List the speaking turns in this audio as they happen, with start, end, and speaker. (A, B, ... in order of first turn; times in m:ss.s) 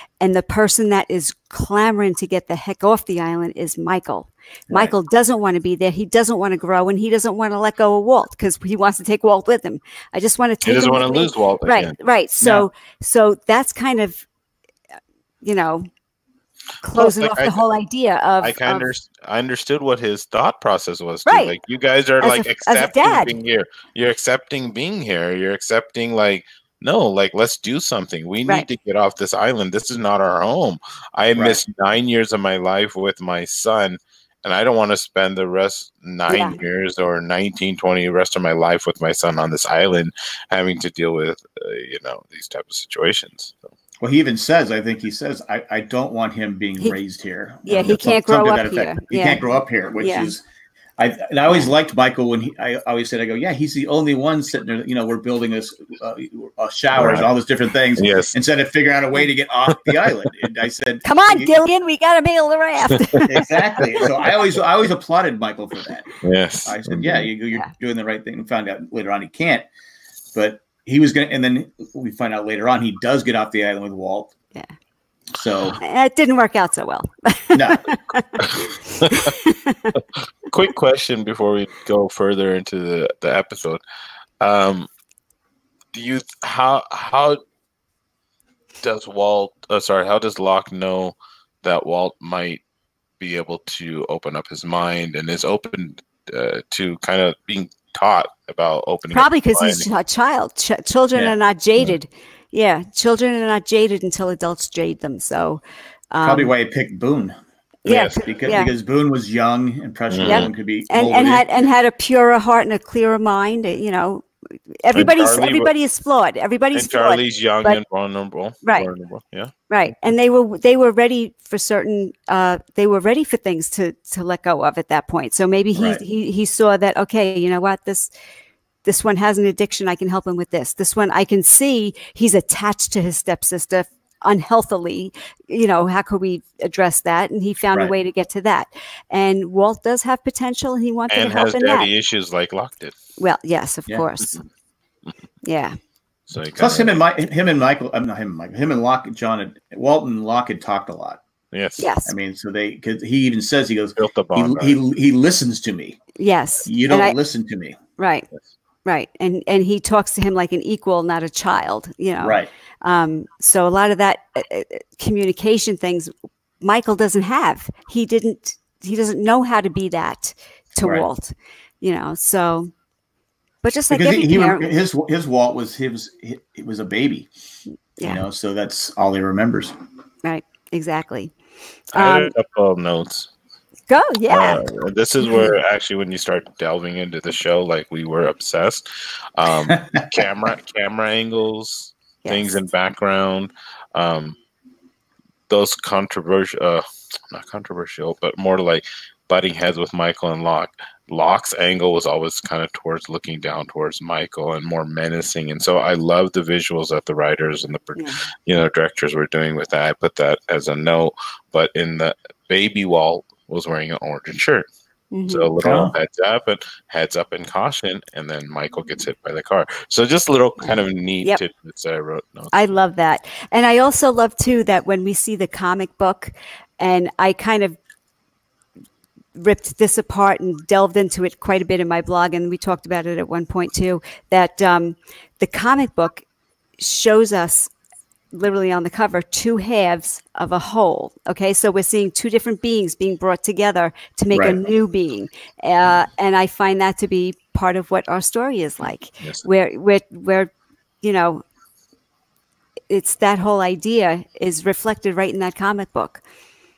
0:00.2-0:14.3 A
0:10.6-0:12.0 B
0:12.4-0:12.7 C
0:15.4-0:15.9 A
0:16.8-0:18.9 A
0:17.0-0:17.6 B
0:18.4-0:43.7 B
0:21.2-0:21.5 A
0:22.2-0:23.3 A
0:36.3-0:36.6 A
0:44.0-0:50.4 C
0:47.7-0:49.4 A
0:50.0-0:50.3 A
0:51.0-1:01.6 C
0:57.0-0:57.3 B
0:58.0-0:58.3 B
1:01.0-1:04.0 A
1:03.3-1:09.7 C
1:06.2-1:07.3 B
1:10.3-1:14.3 C
1:15.4-1:15.8 C
1:15.8-1:18.5 A
1:17.5-1:17.9 C
1:18.4-1:19.3 B
1:19.0-1:19.9 A
1:19.9-1:23.8 B
1:24.4-1:24.9 B
1:25.9-1:27.4 B
1:28.8-1:32.6 B
1:33.2-1:39.9 B
1:39.1-1:46.5 A
1:46.2-1:51.5 C
1:47.8-1:48.7 A
1:50.1-1:50.5 B
1:50.2-1:54.3 A
1:54.8-1:57.8 A
1:54.9-1:55.7 B
1:56.7-1:59.5 B
1:58.6-1:58.9 A
1:59.7-2:08.1 A
2:05.8-2:06.0 C
2:08.8-2:21.9 A
2:21.1-2:23.0 B
2:23.2-2:24.4 A
2:25.4-2:25.8 A
2:26.3-2:27.0 B
2:26.6-2:31.2 C
2:31.5-2:31.9 B
2:31.8-2:32.1 A
2:32.1-2:36.0 C
2:34.0-2:34.8 B
2:36.2-2:37.2 A
2:36.7-2:37.8 C
2:38.0-2:38.3 A
2:38.8-2:52.7 A
2:42.2-2:42.5 C
2:53.6-2:54.7 A
2:53.9-2:57.3 C
2:58.0-2:59.8 C
3:00.2-3:01.3 A
3:01.9-3:02.3 A
3:01.9-3:03.3 B
3:03.9-3:04.6 A
3:04.3-3:08.8 B
3:09.4-3:14.4 B
3:09.7-3:10.0 C
3:12.2-3:12.6 A
3:15.5-3:34.7 B
3:28.0-3:28.2 A
3:35.1-3:35.5 A
3:35.3-3:42.5 B
3:35.6-3:35.9 C
3:40.6-3:41.4 A
3:42.5-3:47.8 A
3:49.4-3:56.2 A
3:56.8-3:57.7 A
3:58.3-4:11.4 A
4:12.9-4:16.2 A